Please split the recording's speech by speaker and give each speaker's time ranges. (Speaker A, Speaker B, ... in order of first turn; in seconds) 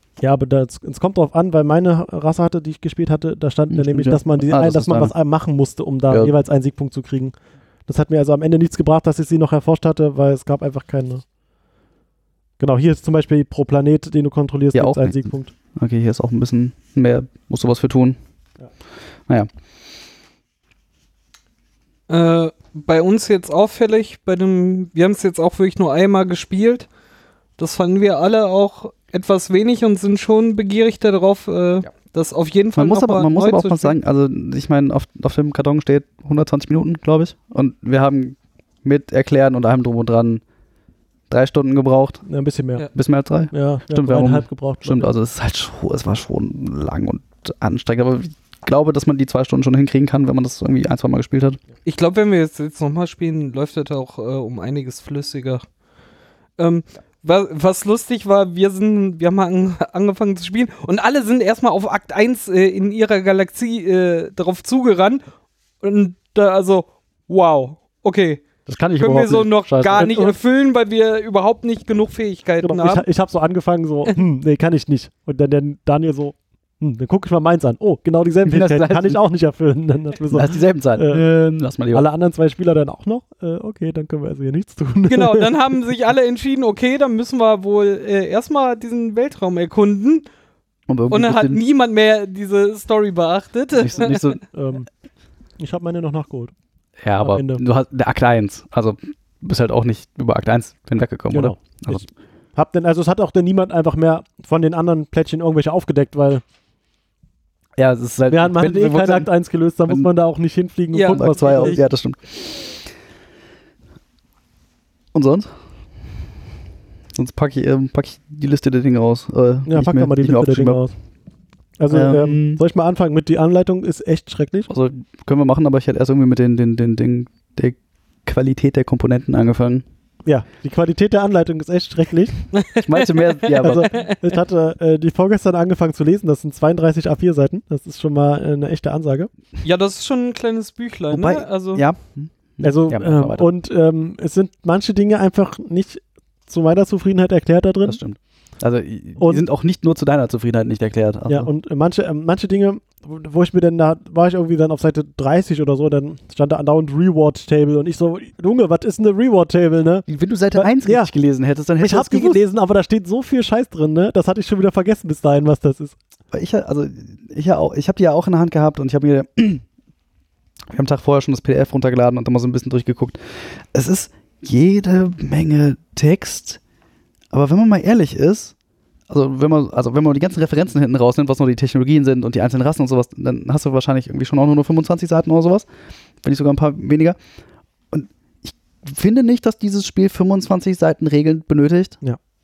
Speaker A: 0.2-7.3, 7.9-11.2, 12.6-15.5, 42.3-42.9, 43.5-45.1, 70.0-70.3, 72.6-81.2, 81.9-85.6, 94.5-94.9, 95.6-96.5, 97.2-97.6, 101.3-106.4, 108.3-111.8, 119.7-121.0, 121.8-124.7, 130.2-132.5, 133.6-139.3, 142.6-148.0, 149.2-149.4, 151.3-161.1, 161.8-166.0
Speaker B: 3.7-5.1, 14.7-18.2, 32.7-40.4, 41.3-42.2, 43.0-51.6, 68.7-70.2, 78.5-79.2, 80.3-82.1, 90.9-91.6, 93.8-94.4, 97.0-102.0, 107.8-109.3, 111.1-112.9, 115.1-115.5, 117.2-120.8, 121.9-122.6, 124.7-129.8, 132.8-134.0, 141.1-143.5, 147.8-151.5, 160.1-162.4, 166.3-169.7, 170.7-176.6, 177.3-178.6, 179.1-185.7, 186.2-187.2, 187.9-192.0
Speaker C: 22.1-26.9, 27.6-34.0, 51.9-55.6, 56.6-65.2, 65.8-73.0, 85.1-90.2, 91.1-94.3, 110.9-111.8, 132.5-134.2, 139.6-141.8